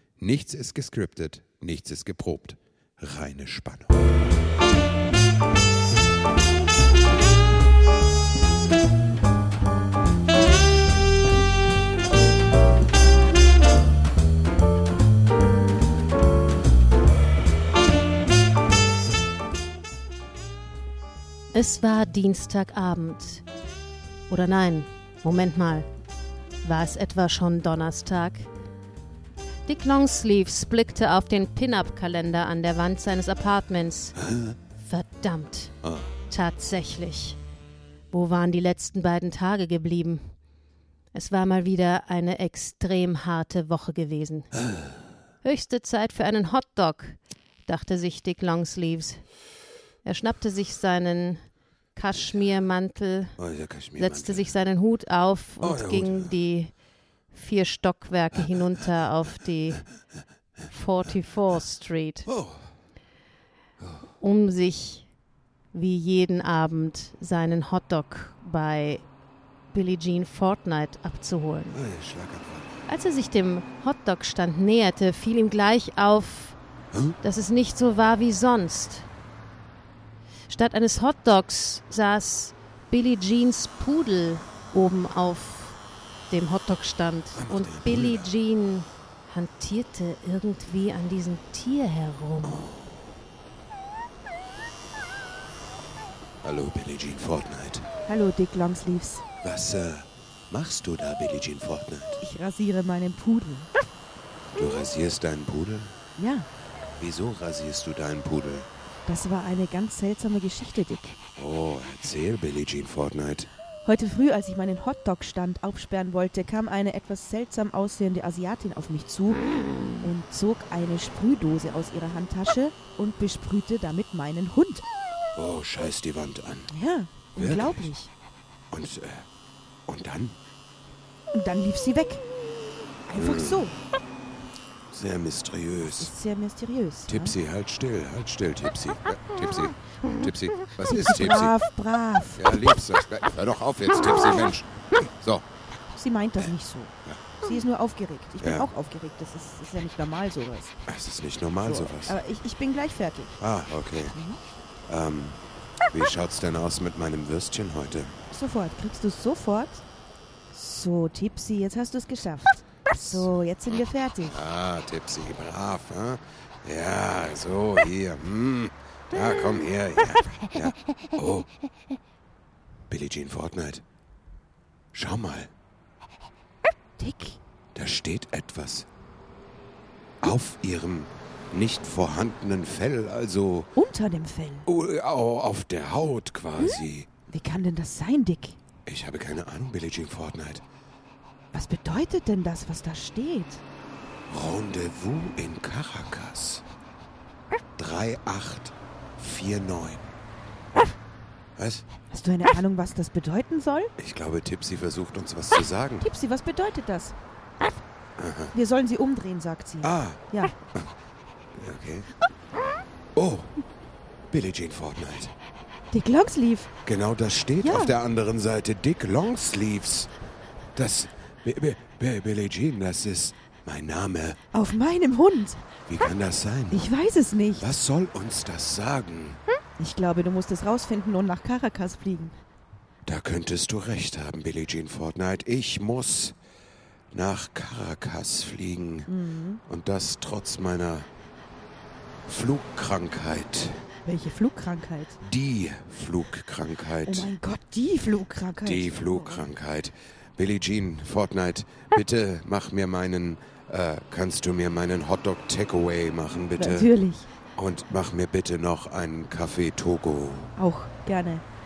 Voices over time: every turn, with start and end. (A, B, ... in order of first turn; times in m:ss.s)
0:00.2-0:04.0 A
0:21.5-0:23.4 B
0:24.3-0:25.9 B
0:26.6-0:28.5 B
0:29.7-0:34.2 B
0:34.2-0:34.6 A
0:34.8-0:35.7 B
0:36.3-0:37.4 B
0:38.1-0:40.3 B
0:41.1-0:44.5 B
0:44.6-0:44.9 A
0:45.4-0:49.2 B
0:50.0-0:51.4 B
0:51.9-0:53.4 B
0:53.4-0:54.5 A
0:54.0-0:56.7 B
0:55.6-0:56.3 A
0:57.3-0:59.8 B
1:00.7-1:02.3 B
1:02.3-1:02.7 A
1:04.2-1:05.1 B
1:05.7-1:09.1 B
1:09.7-1:11.8 B
1:11.7-1:12.7 A
1:12.9-1:16.6 B
1:16.9-1:17.2 A
1:17.2-1:19.1 B
1:20.5-1:25.8 B
1:26.3-1:32.6 B
1:27.4-1:28.3 A
1:32.4-1:32.9 A
1:36.4-1:37.9 A
1:38.0-1:39.3 C
1:39.4-1:42.2 A
1:42.2-1:43.7 C
1:44.5-1:45.9 A
1:46.2-1:46.5 C
1:47.0-1:48.7 A
1:49.1-1:51.2 C
1:51.4-1:53.5 A
1:53.8-2:04.8 C
2:05.3-2:06.7 A
2:06.7-2:08.1 C
2:07.4-2:07.9 A
2:08.7-2:09.3 A
2:09.9-2:10.4 A
2:11.3-2:12.2 C
2:13.1-2:13.8 C
2:13.1-2:13.7 A
2:14.9-2:16.1 A
2:16.0-2:17.3 C
2:17.1-2:21.5 A
2:20.8-2:22.7 C
2:22.4-2:25.4 A
2:25.9-2:30.8 C
2:28.4-2:28.7 A
2:30.9-2:32.2 A
2:31.6-2:33.4 C
2:33.4-2:34.2 A
2:34.1-2:34.4 C
2:34.9-2:38.2 A
2:38.3-2:39.8 C
2:40.5-2:44.4 C
2:43.0-2:51.5 A
2:52.9-2:53.8 A
2:54.9-2:55.5 A
2:56.6-2:57.4 C
2:57.7-2:58.9 A
3:00.2-3:03.7 A
3:03.8-3:04.7 C
3:04.6-3:07.1 A
3:06.6-3:08.6 C
3:08.8-3:10.6 A
3:11.5-3:13.6 C
3:14.3-3:16.6 A
3:17.8-3:20.1 A
3:21.6-3:21.8 A
3:22.1-3:23.9 C
3:24.0-3:26.1 A
3:26.0-3:27.7 C
3:28.2-3:28.5 A
3:28.5-3:30.5 C
3:29.8-3:30.9 A
3:31.5-3:32.1 A
3:33.1-3:33.5 A
3:34.3-3:35.3 A
3:35.9-3:36.7 C
3:36.8-3:40.1 A
3:37.6-3:37.9 C
3:40.7-3:44.4 A
3:44.5-3:45.6 C
3:45.9-3:46.9 A
3:46.7-3:47.7 C
3:47.5-3:49.4 A
3:49.8-3:52.4 C
3:53.0-3:56.3 A
3:57.1-3:59.1 A
3:59.1-3:59.6 C
3:59.6-4:01.1 A
4:02.2-4:03.9 A
4:04.0-4:05.2 C
4:05.2-4:07.3 A
4:07.0-4:09.5 C
4:08.6-4:16.9 A
4:16.6-4:17.3 C
4:17.6-4:20.5 A
4:20.6-4:21.4 C